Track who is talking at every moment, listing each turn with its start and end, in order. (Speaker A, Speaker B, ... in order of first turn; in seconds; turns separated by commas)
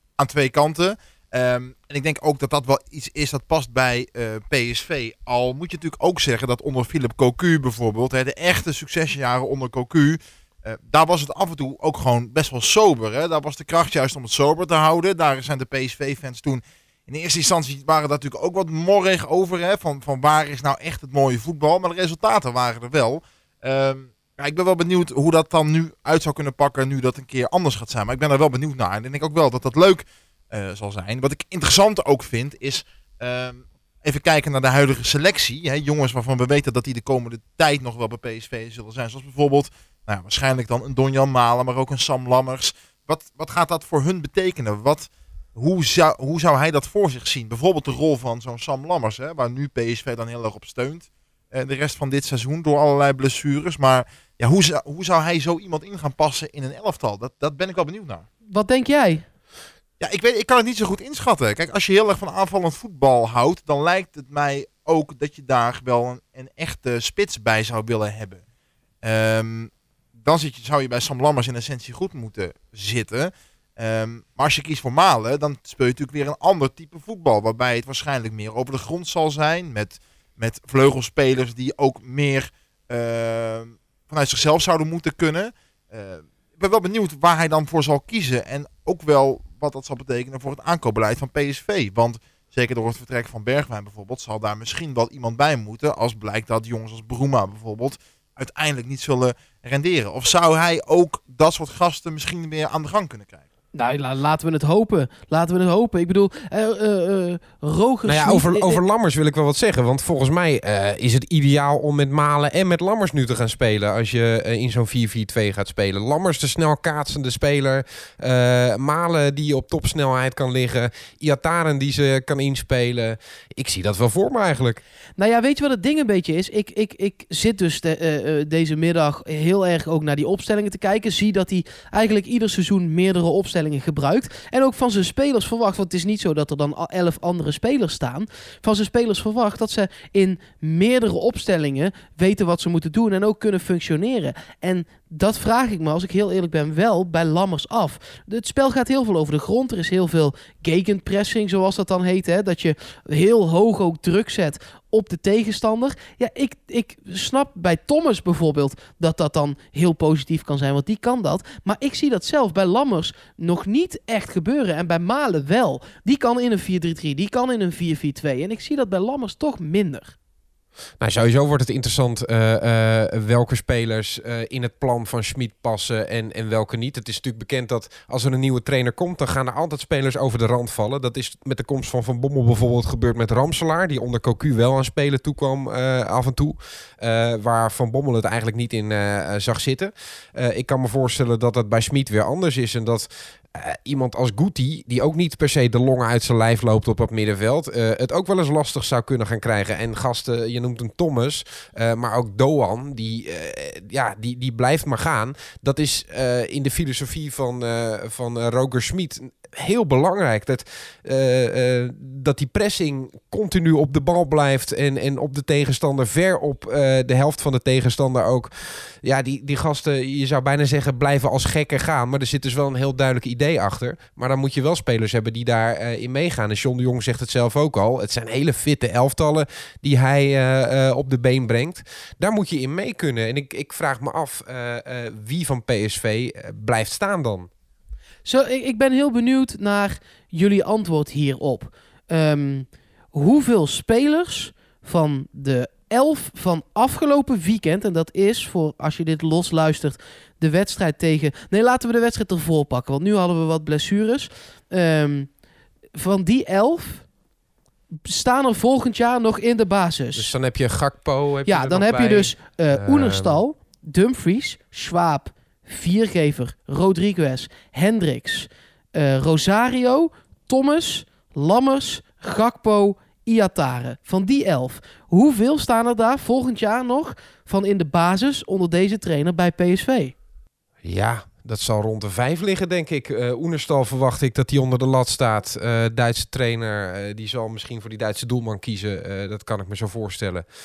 Speaker A: 0.2-58.3, Speaker B: 58.5-59.2, Speaker A: 60.0-68.4, Speaker A: 69.0-103.4, Speaker B: 103.7-108.8, Speaker C: 108.1-124.8, Speaker B: 125.2-170.1, Speaker C: 171.0-237.5, Speaker B: 238.3-255.3, Speaker B: 256.0-257.1, Speaker B: 258.1-260.3, Speaker C: 260.1-263.4, Speaker B: 261.5-280.1, Speaker C: 280.8-290.4